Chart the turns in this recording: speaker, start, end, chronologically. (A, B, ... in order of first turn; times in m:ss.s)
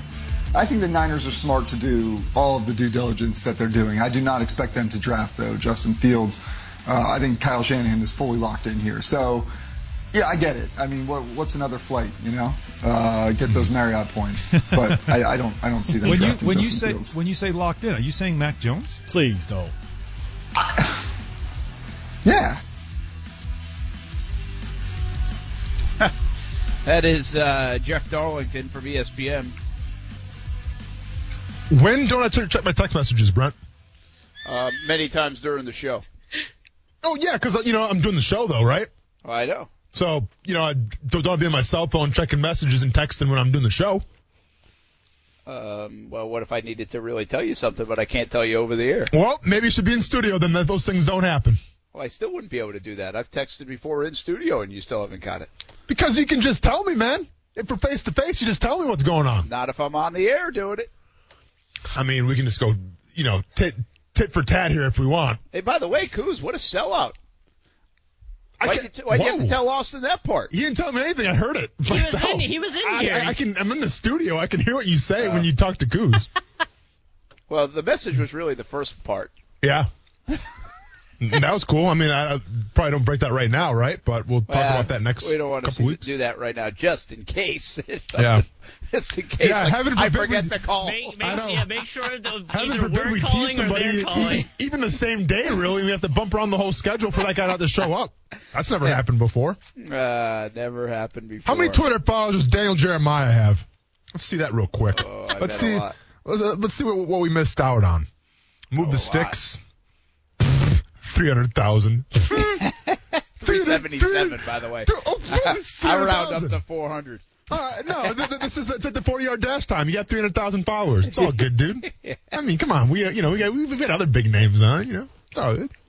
0:00.5-0:09.5 A
0:10.1-0:17.2 A
0:14.5-0:15.2 B
0:16.0-0:19.7 B
0:20.6-0:20.9 A
0:22.2-0:22.6 A
0:26.8-0:29.5 C
0:31.7-0:33.6 D
0:34.4-0:36.0 C
0:37.0-0:38.9 D
0:39.2-0:39.7 C
0:39.9-0:44.0 D
0:45.4-0:49.1 C
0:49.1-0:51.6 D
0:51.9-0:55.5 C
0:55.9-0:59.5 D
0:59.4-1:00.9 C
1:01.9-1:05.4 D
1:05.5-1:07.2 C
1:08.6-1:09.6 D
1:08.6-1:10.5 C
1:10.5-1:16.3 D
1:11.9-1:13.4 E
1:15.2-1:15.5 C
1:17.5-1:19.3 C
1:19.6-1:19.9 D
1:21.2-1:26.0 D
1:24.5-1:31.4 C
1:28.2-1:28.4 D
1:29.4-1:30.5 D
1:30.8-1:34.4 E
1:31.2-1:31.7 D
1:32.5-1:39.6 D
1:39.8-1:41.8 C
1:41.4-1:48.1 D
1:44.9-1:45.9 C
1:48.7-1:49.6 D
1:48.8-1:49.4 C
1:51.0-1:52.7 D
1:53.4-1:57.4 C
1:53.4-1:56.6 D
1:57.5-2:05.7 D
1:58.0-1:58.3 C
2:01.0-2:02.4 C